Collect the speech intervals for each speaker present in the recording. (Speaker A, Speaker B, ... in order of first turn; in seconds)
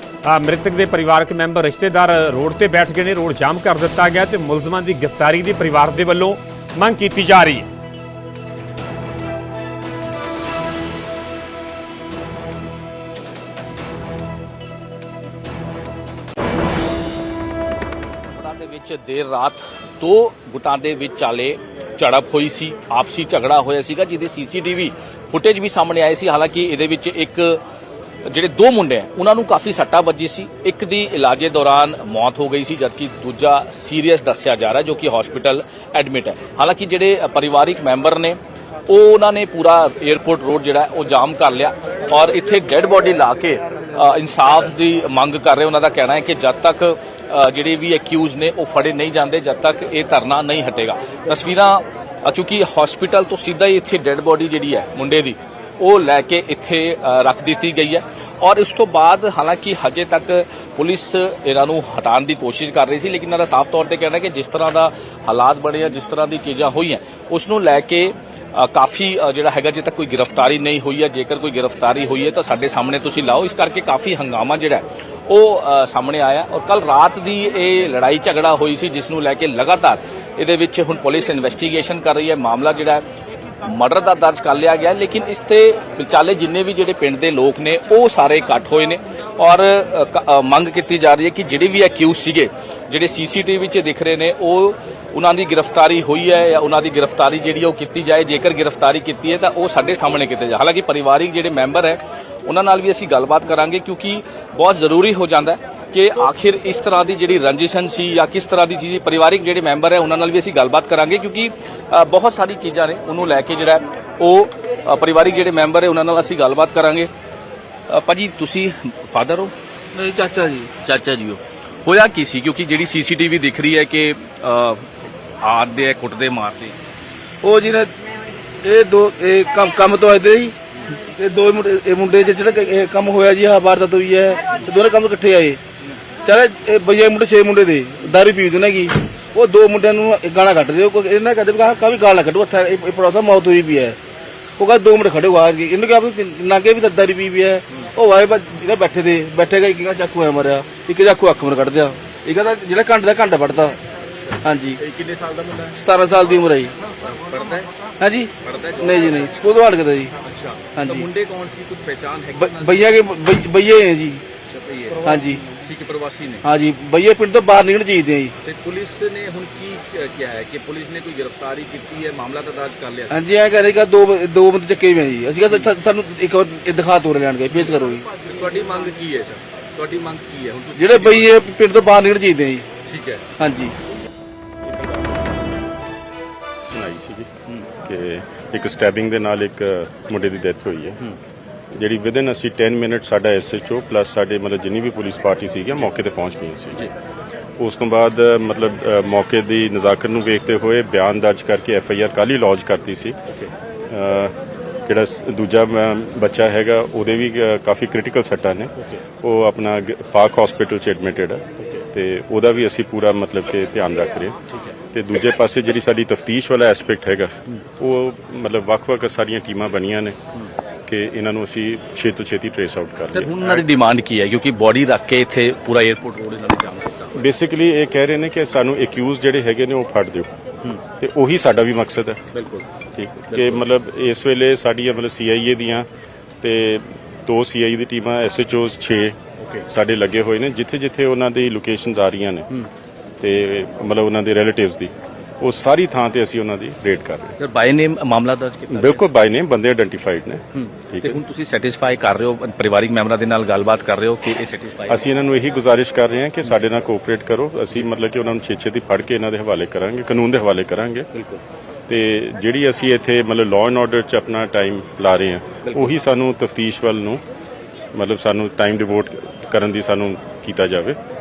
Speaker A: 0.2-7.7
Speaker B: 18.3-27.6, 28.3-83.0, 83.6-117.1, 117.9-119.5, 120.8-124.9, 125.4-126.8, 154.2-155.8, 157.0-157.7, 158.4-159.2, 160.2-162.9, 164.5-166.5, 168.4-173.2, 177.5-181.4, 182.8-183.3, 223.1-227.2, 232.3-232.7, 233.3-233.6, 247.4-249.0, 250.6-255.1, 261.1-261.4, 265.7-265.9
Speaker C: 119.9-120.7, 127.4-127.9, 128.6-135.6, 136.2-144.0, 144.6-153.8, 154.4-154.8, 155.7-156.8, 158.0-160.1, 160.8-161.1, 162.3-164.2, 165.0-165.4, 166.4-168.3, 173.1-178.0, 180.8-182.7, 183.4-183.8
Speaker D: 184.7-185.4, 186.7-191.0, 191.8-196.9, 197.6-203.2, 203.9-204.3, 204.9-214.4, 214.9-220.2, 220.9-223.6, 227.2-230.3, 231.0-232.2, 232.9-235.9, 236.4-242.5, 243.2-247.3, 248.7-251.2, 254.9-261.1, 261.9-267.2, 267.9-271.0